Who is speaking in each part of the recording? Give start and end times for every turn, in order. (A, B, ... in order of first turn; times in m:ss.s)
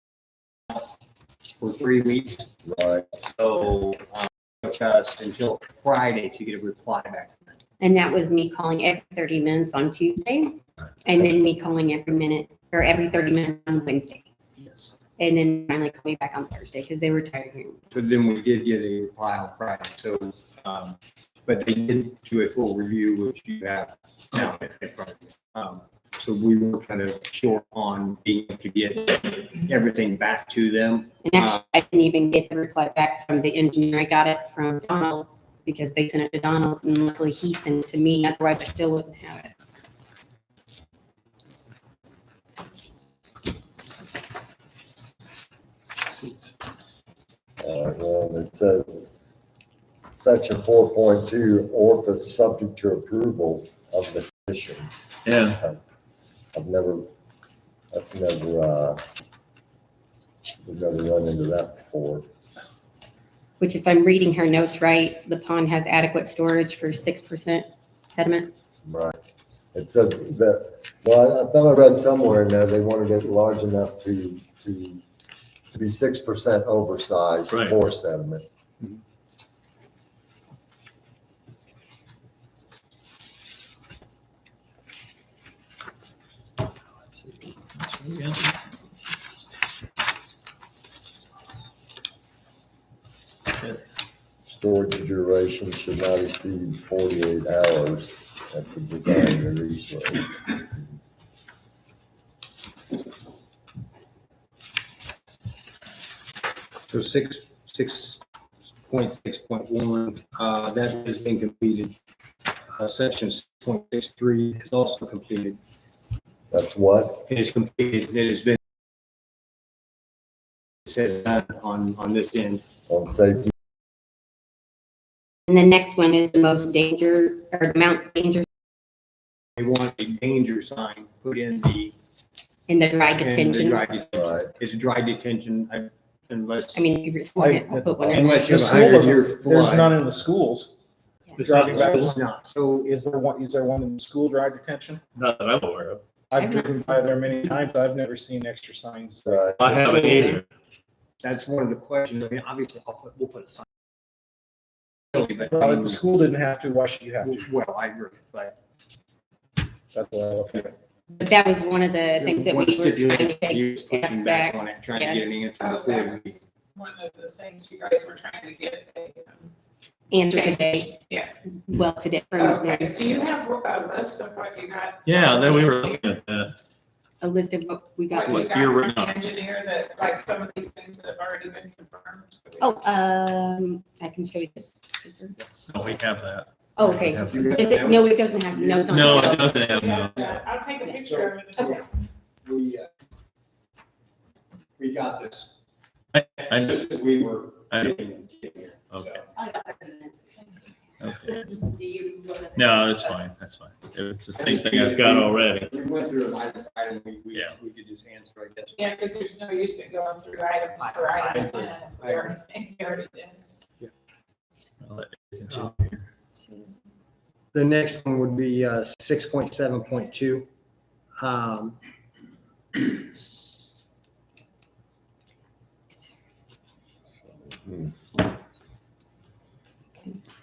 0:01.6-0:02.5 A
0:02.6-0:03.0 B
0:03.3-0:07.6 A
0:07.8-0:14.2 C
0:14.6-0:14.9 A
0:15.2-0:17.8 C
0:17.9-0:31.6 A
0:31.2-0:39.5 C
0:47.6-0:49.0 B
0:50.1-0:54.9 B
0:55.2-0:55.6 D
0:56.5-0:57.1 B
0:57.9-0:59.0 B
1:00.6-1:02.2 B
1:03.6-1:08.5 C
1:08.8-1:09.2 B
1:09.7-1:15.0 B
1:15.7-1:18.4 B
1:27.3-1:28.8 D
1:33.6-1:33.8 D
1:34.4-1:40.8 B
1:46.9-1:48.2 A
1:48.9-1:51.9 A
1:52.7-1:55.6 A
1:56.5-1:57.3 B
1:57.3-1:58.6 A
2:00.8-2:02.6 A
2:02.9-2:03.5 B
2:05.5-2:08.4 C
2:09.6-2:11.9 A
2:12.7-2:13.9 C
2:13.1-2:16.8 A
2:14.1-2:14.5 B
2:16.7-2:18.4 C
2:17.4-2:20.8 E
2:18.0-2:20.0 A
2:21.4-2:22.0 E
2:21.4-2:22.8 A
2:21.7-2:22.1 D
2:22.8-2:25.0 E
2:25.1-2:26.0 D
2:26.3-2:30.4 E
2:26.4-2:26.9 C
2:29.2-2:29.9 B
2:29.6-2:30.4 D
2:31.2-2:33.6 A
2:35.1-2:36.0 A
2:35.4-2:37.4 E
2:37.2-2:38.6 A
2:39.9-2:40.7 E
2:41.1-2:45.2 C
2:42.2-2:46.4 A
2:45.6-2:49.3 F
2:50.1-2:51.0 C
2:51.6-2:53.0 C
2:52.4-2:56.0 F
2:55.0-2:56.6 D
2:57.2-2:58.5 C
2:58.1-3:02.7 F
2:58.2-2:59.2 D
3:02.6-3:05.3 C
3:05.7-3:07.4 D
3:06.8-3:09.6 C
3:07.2-3:11.8 A
3:08.9-3:10.2 D
3:09.5-3:11.8 F
3:12.4-3:12.9 A
3:14.8-3:15.5 A
3:16.1-3:16.6 D
3:16.4-3:19.2 A
3:17.7-3:17.9 D
3:18.9-3:19.2 D
3:19.4-3:20.4 C
3:21.0-3:21.5 D
3:21.6-3:22.6 C
3:22.5-3:25.7 D
3:24.4-3:28.9 A
3:28.8-3:33.4 F
3:31.0-3:32.3 A
3:34.8-3:35.9 D
3:37.5-3:40.5 A
3:41.2-3:41.8 A
3:47.2-3:47.9 B